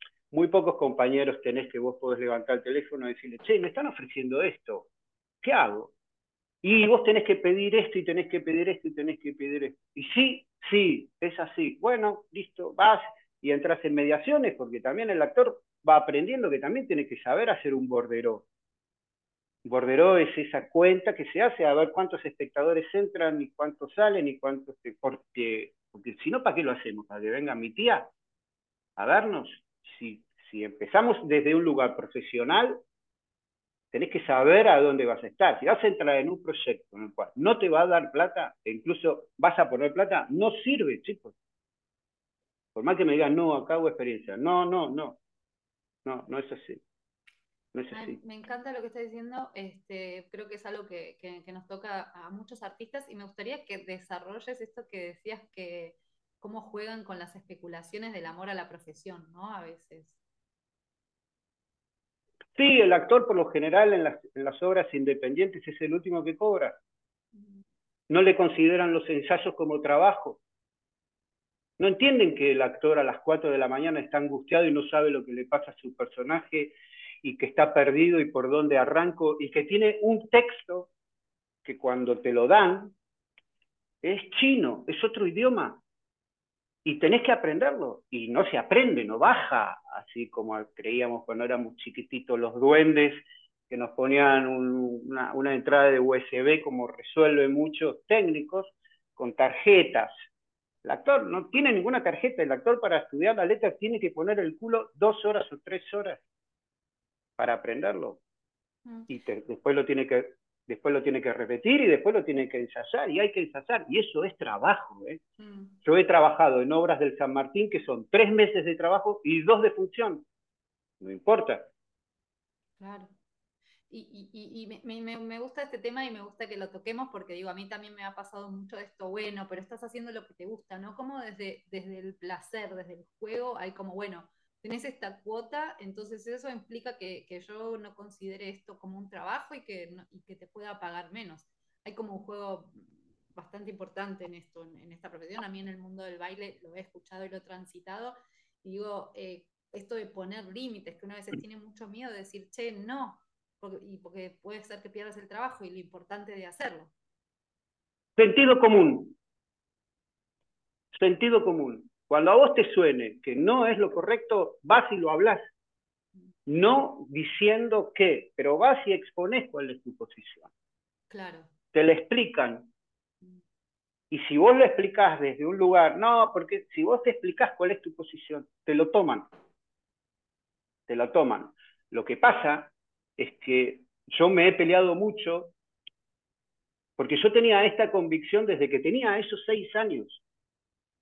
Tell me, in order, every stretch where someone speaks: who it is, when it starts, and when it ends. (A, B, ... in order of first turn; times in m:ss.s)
0:00.3-0:04.9 A
0:05.4-0:05.9 A
0:06.6-0:18.4 A
0:19.6-0:28.1 A
0:29.0-0:32.8 A
0:33.9-0:41.3 A
0:42.7-0:45.2 A
0:46.0-0:46.8 A
0:47.7-0:48.2 A
0:47.9-1:00.2 B
1:02.6-1:06.8 A
1:08.1-1:10.4 A
1:11.8-1:20.9 A
1:21.6-1:22.9 A
1:24.0-1:25.8 A
1:26.8-1:40.1 A
1:40.8-1:46.2 A
1:47.4-1:48.2 A
1:49.1-1:55.2 A
1:55.4-1:55.8 B
1:55.8-2:00.2 A
2:01.0-2:01.7 A
2:02.8-2:03.1 B
2:03.9-2:22.8 B
2:23.3-2:36.9 B
2:38.2-2:39.1 A
2:40.9-2:45.4 A
2:46.4-2:50.5 A
2:51.1-2:51.5 B
2:51.7-2:52.7 A
2:54.1-2:59.3 A
3:00.9-3:05.5 A
3:07.0-3:10.2 A